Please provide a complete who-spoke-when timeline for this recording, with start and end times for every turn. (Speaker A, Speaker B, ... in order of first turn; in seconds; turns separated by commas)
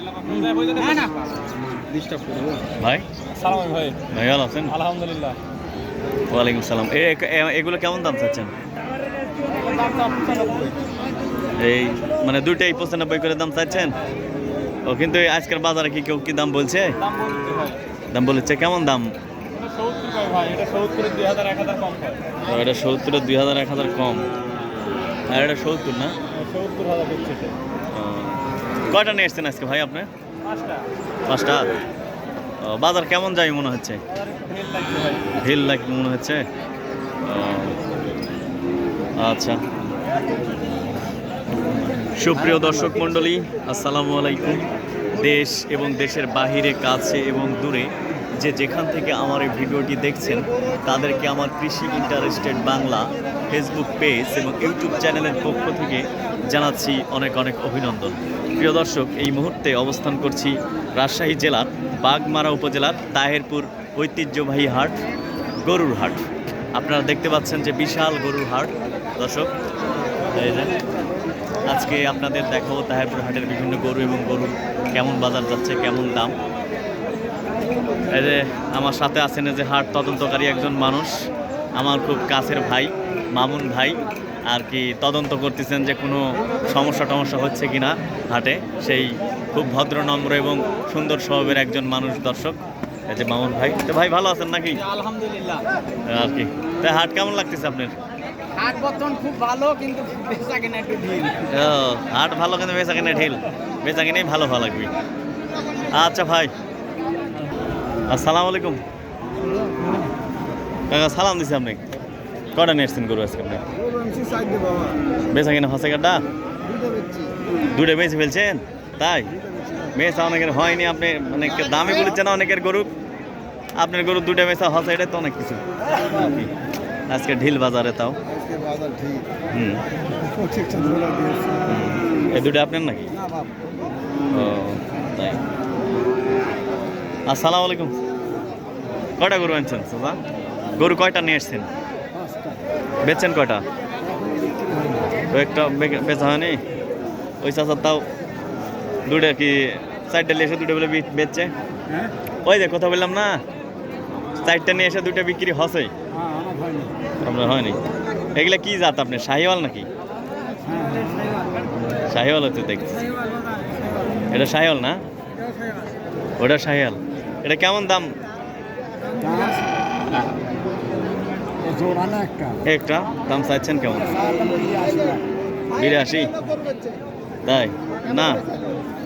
Speaker A: 0.2-1.2, Speaker B: 1.9-2.6, Speaker C: 2.8-3.0, Speaker A: 3.3-4.0, Speaker C: 4.1-4.8, Speaker A: 4.7-5.4, Speaker C: 6.3-8.5, Speaker A: 9.4-10.7, Speaker C: 11.6-13.9, Speaker C: 14.8-17.0, Speaker A: 17.0-17.8, Speaker C: 18.1-19.1, Speaker A: 19.6-22.2, Speaker C: 22.4-24.3, Speaker C: 25.3-26.1, Speaker A: 26.4-27.5, Speaker C: 27.9-30.1, Speaker A: 30.5-30.8, Speaker C: 31.3-31.6, Speaker C: 32.6-34.0, Speaker A: 34.4-35.2, Speaker C: 35.3-36.4, Speaker C: 37.2-37.8, Speaker C: 39.2-39.6, Speaker C: 42.2-65.0, Speaker C: 65.6-69.5, Speaker C: 70.3-70.7, Speaker C: 71.7-76.3, Speaker C: 78.1-81.2, Speaker C: 81.8-84.0, Speaker C: 84.5-92.6, Speaker C: 93.1-94.8, Speaker C: 96.1-97.9, Speaker B: 98.5-101.5, Speaker C: 101.5-104.9, Speaker C: 105.9-106.5, Speaker C: 108.1-108.8, Speaker C: 110.9-111.8, Speaker C: 112.5-113.6, Speaker C: 115.3-116.2, Speaker C: 117.7-119.3, Speaker C: 119.9-122.9, Speaker C: 123.8-126.5, Speaker C: 127.1-128.2, Speaker C: 129.4-129.8, Speaker B: 130.6-130.9, Speaker C: 131.6-133.1, Speaker C: 134.3-135.4, Speaker C: 137.3-137.9, Speaker C: 139.2-140.2, Speaker C: 140.8-141.7, Speaker B: 142.2-142.6, Speaker C: 143.0-143.6, Speaker B: 144.6-144.9, Speaker C: 145.3-146.6, Speaker C: 147.4-148.0, Speaker C: 149.1-151.5, Speaker C: 152.4-153.4, Speaker C: 154.4-155.9, Speaker B: 156.2-156.9, Speaker C: 157.2-157.8, Speaker C: 158.3-159.9, Speaker B: 160.7-161.1, Speaker C: 162.1-163.0, Speaker C: 164.3-165.0, Speaker C: 166.4-168.2, Speaker B: 169.2-169.6, Speaker B: 171.6-172.6, Speaker C: 172.7-174.2, Speaker B: 174.1-175.2, Speaker C: 175.8-176.3, Speaker C: 177.4-178.4